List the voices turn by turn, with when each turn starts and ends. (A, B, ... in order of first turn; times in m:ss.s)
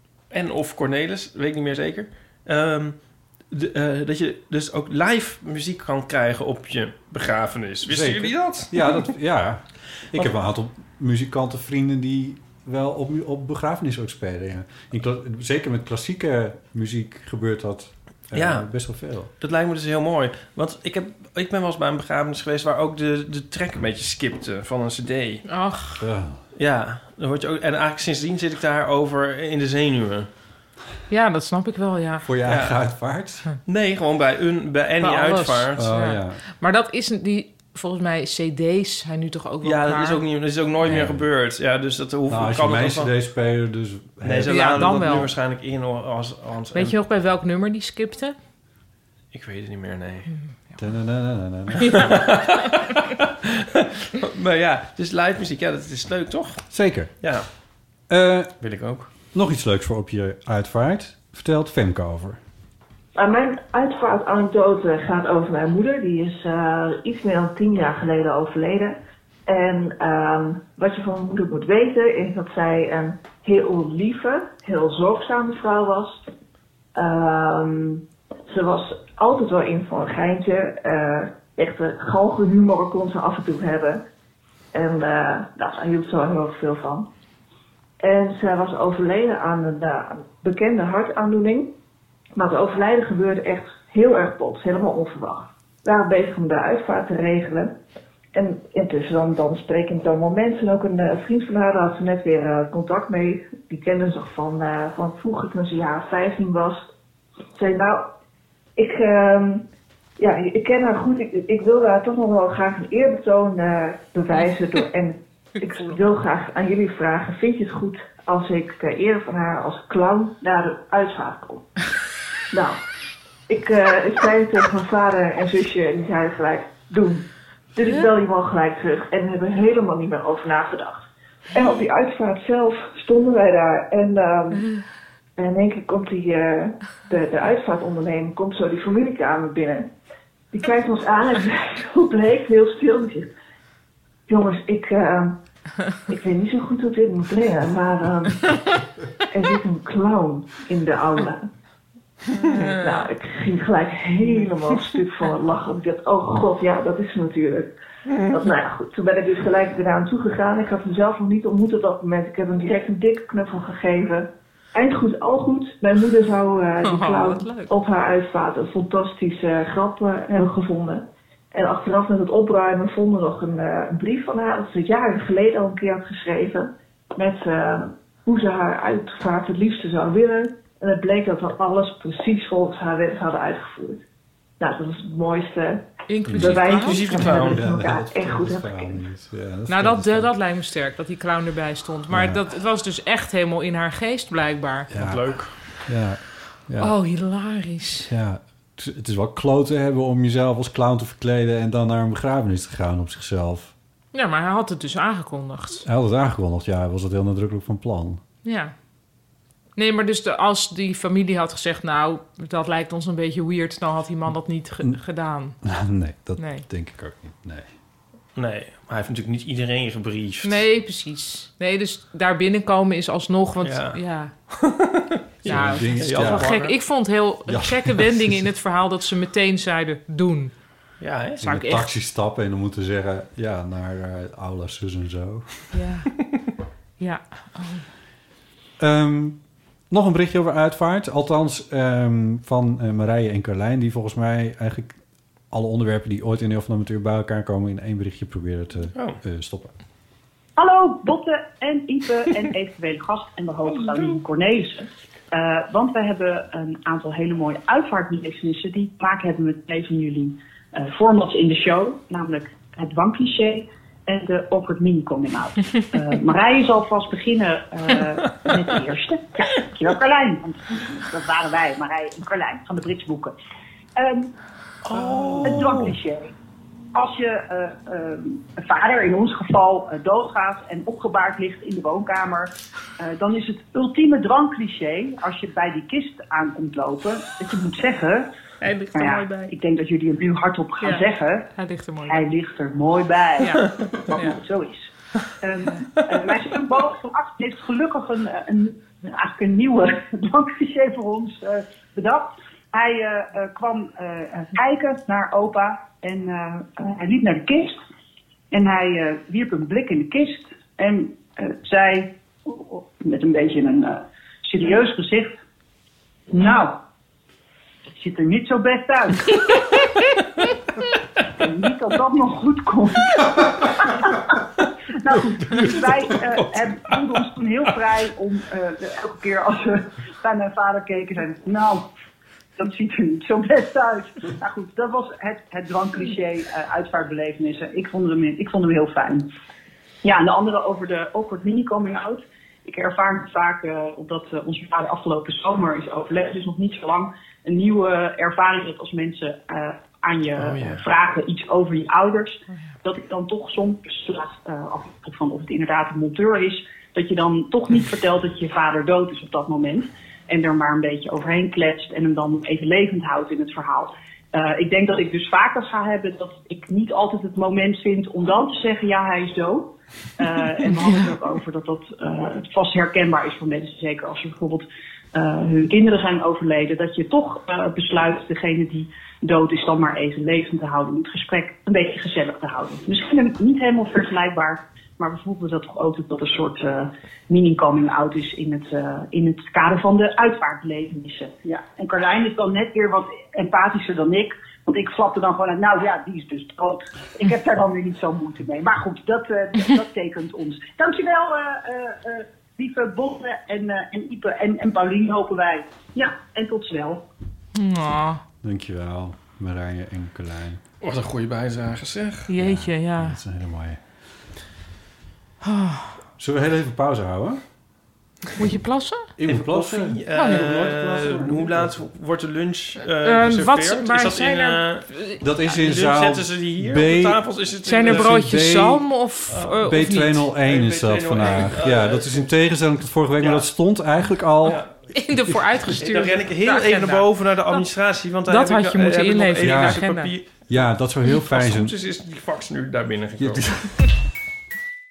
0:00.3-0:09.1 A
0:07.8-0:19.3 B
0:18.3-0:25.4 A
0:25.4-0:26.0 C
0:26.0-0:26.4 B
0:26.5-0:30.3 A
0:31.1-0:32.3 C
0:32.2-0:33.4 B
0:32.4-0:32.8 A
0:33.6-0:35.8 A
0:35.0-0:40.2 C
0:35.7-0:36.4 B
0:39.6-0:43.1 A
0:40.8-0:41.3 B
0:42.3-0:45.0 B
0:44.2-0:47.0 A
0:44.5-0:45.3 C
0:46.7-0:48.4 C
0:49.3-0:50.3 A
0:50.4-0:50.8 C
0:50.8-0:52.2 B
0:51.9-0:53.0 A
0:54.1-0:57.5 A
0:56.7-0:57.5 B
0:58.1-0:58.6 B
0:58.6-0:59.1 A
0:59.3-1:02.4 B
1:03.1-1:16.2 D
1:16.9-1:24.0 D
1:24.7-1:27.1 D
1:28.0-1:31.7 D
1:32.4-1:37.7 D
1:38.3-1:46.9 D
1:47.5-1:48.1 D
1:48.8-1:49.7 D
1:50.2-2:01.7 D
2:02.5-2:02.8 D
2:03.5-2:14.7 D
2:15.4-2:19.9 D
2:20.5-2:23.3 D
2:24.3-2:25.4 D
2:26.1-2:28.8 D
2:29.3-2:31.5 D
2:32.4-2:32.7 C
2:32.8-2:37.7 D
2:38.3-3:04.0 D
2:46.8-2:47.7 C
3:04.6-3:09.0 D
3:06.1-3:07.1 C
3:06.2-3:10.3 B
3:06.5-3:07.6 A
3:09.7-3:14.9 C
3:12.1-3:12.4 B
3:14.9-3:17.0 B
3:15.0-3:15.7 A
3:16.8-3:18.1 C
3:18.1-3:23.7 B
3:24.1-3:25.8 C
3:25.8-3:28.2 B
3:28.4-3:28.7 C
3:29.8-3:35.6 C
3:35.6-3:37.7 B
3:36.4-3:36.6 C
3:38.4-3:40.6 A
3:40.4-3:44.3 C
3:43.6-3:46.7 A
3:45.4-3:46.6 B
3:45.4-3:50.6 C
3:47.5-3:48.4 B
3:51.0-3:51.4 A
3:51.4-3:51.9 C
3:51.4-3:55.6 B
3:55.7-3:56.1 C
3:57.0-3:57.9 C
3:58.8-4:05.0 B
4:05.5-4:09.7 B
4:08.9-4:09.2 A
4:10.6-4:33.3 E
4:13.8-4:14.1 A
4:34.0-4:34.3 E
4:34.8-4:35.9 A
4:35.4-4:36.3 E
4:36.9-4:48.3 E
4:48.6-4:49.5 C
4:48.9-4:51.5 E
4:50.8-4:52.3 C
4:52.1-4:54.9 E
4:53.4-4:54.4 C
4:55.4-5:07.8 E
5:08.5-5:15.3 E
5:16.3-5:16.7 E
5:18.0-5:19.3 E
5:21.3-5:24.3 E
5:25.0-5:31.8 E
5:25.5-5:25.8 A
5:32.6-5:39.3 E
5:40.0-6:47.0 E
5:50.4-5:50.8 A
6:47.5-6:48.2 C
6:48.4-6:50.6 B
6:50.8-6:52.3 A
6:52.3-6:53.2 C
6:52.4-6:53.8 B
6:55.4-6:56.0 C
6:56.2-6:57.4 B
6:58.4-6:59.1 C
6:59.2-7:01.7 B
6:59.2-7:04.9 A
7:00.1-7:00.4 C
7:03.0-7:05.2 C
7:05.2-7:07.2 B
7:05.5-7:08.2 A
7:07.6-7:10.3 C
7:07.8-7:08.9 B
7:09.6-7:14.6 B
7:10.4-7:12.3 A
7:13.2-7:13.5 A
7:14.4-7:14.7 A
7:14.9-7:17.6 C
7:15.8-7:23.7 A
7:18.3-7:20.1 C
7:19.4-7:19.8 B
7:20.5-7:21.7 B
7:23.2-7:23.7 B